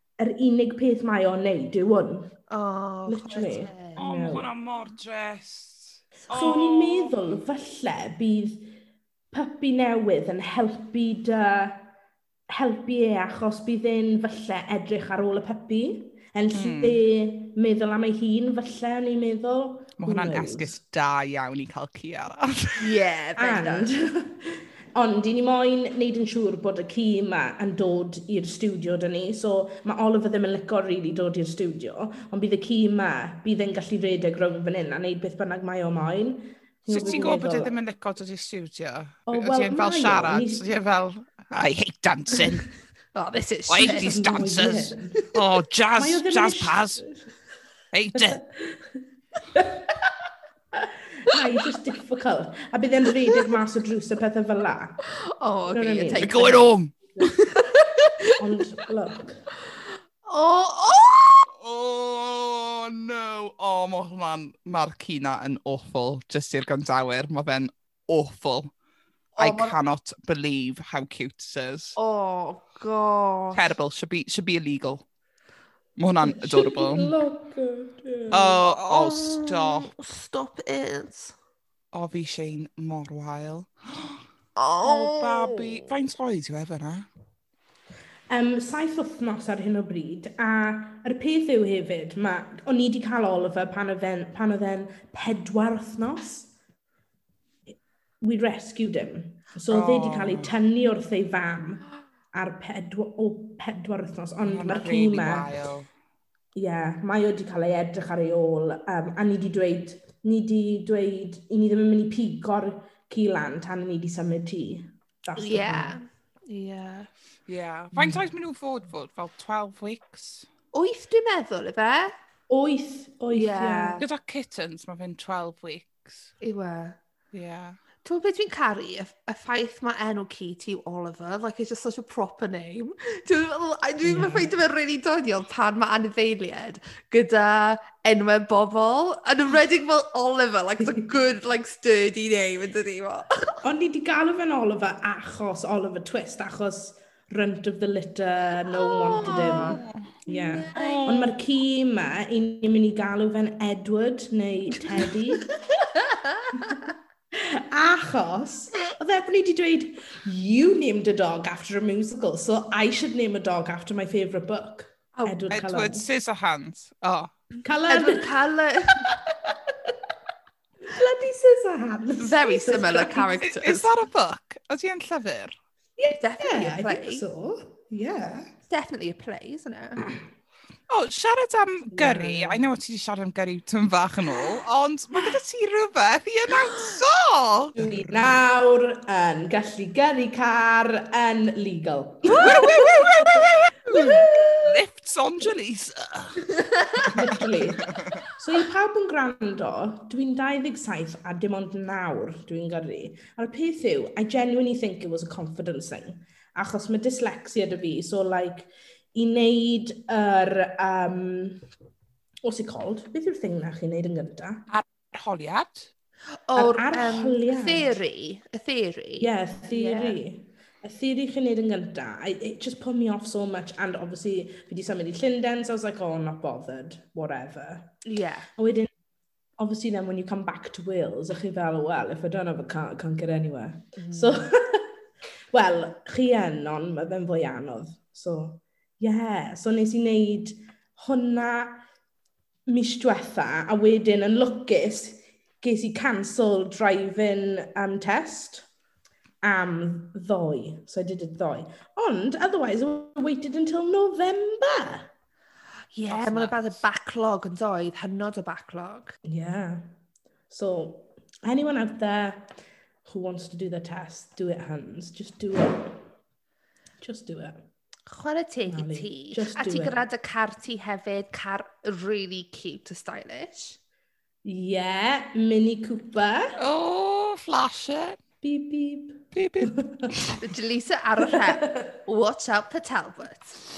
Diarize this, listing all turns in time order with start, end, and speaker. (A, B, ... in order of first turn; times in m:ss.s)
0:00.2-0:02.3 A
0:02.5-0:04.0 B
0:03.1-0:04.5 A
0:04.0-0:07.2 C
0:06.3-0:08.7 A
0:09.3-0:11.9 A
0:12.5-0:20.8 A
0:16.5-0:17.0 C
0:20.0-0:23.0 C
0:22.8-0:23.9 B
0:23.4-0:37.7 A
0:36.9-0:42.7 C
0:36.9-0:37.3 B
0:39.3-0:40.7 A
0:43.2-0:44.5 B
0:43.7-0:47.1 C
0:43.8-0:45.4 A
0:46.0-0:47.3 A
0:47.9-0:48.4 C
0:48.2-0:48.9 A
0:49.5-0:49.9 A
0:50.8-0:55.0 A
0:55.3-0:56.7 B
0:55.7-0:56.6 A
0:56.2-0:58.1 C
0:58.4-0:59.4 A
1:00.2-1:01.5 B
1:01.6-1:08.7 C
1:09.4-1:09.8 B
1:09.4-1:12.0 C
1:12.0-1:13.7 B
1:13.5-1:15.0 C
1:16.0-1:17.2 C
1:16.2-1:18.6 A
1:18.3-1:19.9 C
1:18.7-1:21.4 B
1:21.9-1:24.2 C
1:24.6-1:25.9 B
1:24.8-1:27.1 C
1:28.3-1:36.5 A
1:38.2-1:45.6 A
1:39.7-1:40.5 C
1:44.4-1:45.9 C
1:46.6-1:56.0 A
1:55.4-1:57.1 B
1:57.5-2:00.5 C
2:00.7-2:02.1 B
2:02.5-2:04.0 A
2:03.3-2:04.0 B
2:04.0-2:06.3 C
2:06.4-2:07.0 B
2:07.3-2:07.8 C
2:08.0-2:23.3 B
2:14.0-2:14.5 A
2:23.6-2:35.5 A
2:28.7-2:31.3 B
2:29.2-2:30.1 C
2:30.7-2:31.3 C
2:34.9-2:36.9 B
2:37.3-2:46.1 A
2:45.2-2:45.4 B
2:45.5-2:47.5 C
2:47.6-2:48.3 A
2:47.9-2:49.1 B
2:49.1-2:49.7 A
2:50.8-2:53.4 A
2:52.2-2:53.9 B
2:53.4-2:55.5 C
2:56.0-2:58.5 A
2:56.2-2:57.2 B
2:58.7-3:00.1 B
3:00.9-3:08.3 C
3:01.9-3:02.6 A
3:07.8-3:13.4 A
3:12.3-3:17.1 C
3:13.9-3:14.7 A
3:17.0-3:31.6 A
3:17.8-3:18.2 C
3:32.4-3:34.7 A
3:34.7-3:35.9 C
3:36.5-3:40.2 B
3:36.6-3:38.0 A
3:39.2-3:48.0 A
3:48.0-3:48.5 B
3:48.6-3:48.9 A
3:49.6-3:54.9 A
3:54.0-3:54.5 B
3:55.5-4:01.8 A
4:02.7-4:08.7 A
4:09.4-4:15.1 A
4:15.9-4:19.2 B
4:16.1-4:16.6 C
4:19.3-4:19.9 A
4:20.5-4:22.5 A
4:23.0-4:26.0 A
4:27.0-4:27.7 A
4:28.1-4:33.8 B
4:28.7-4:30.0 A
4:34.4-4:36.6 A
4:36.6-4:38.2 C
4:38.4-4:40.1 A
4:39.4-4:40.4 C
4:40.4-4:43.6 B
4:41.2-4:41.9 A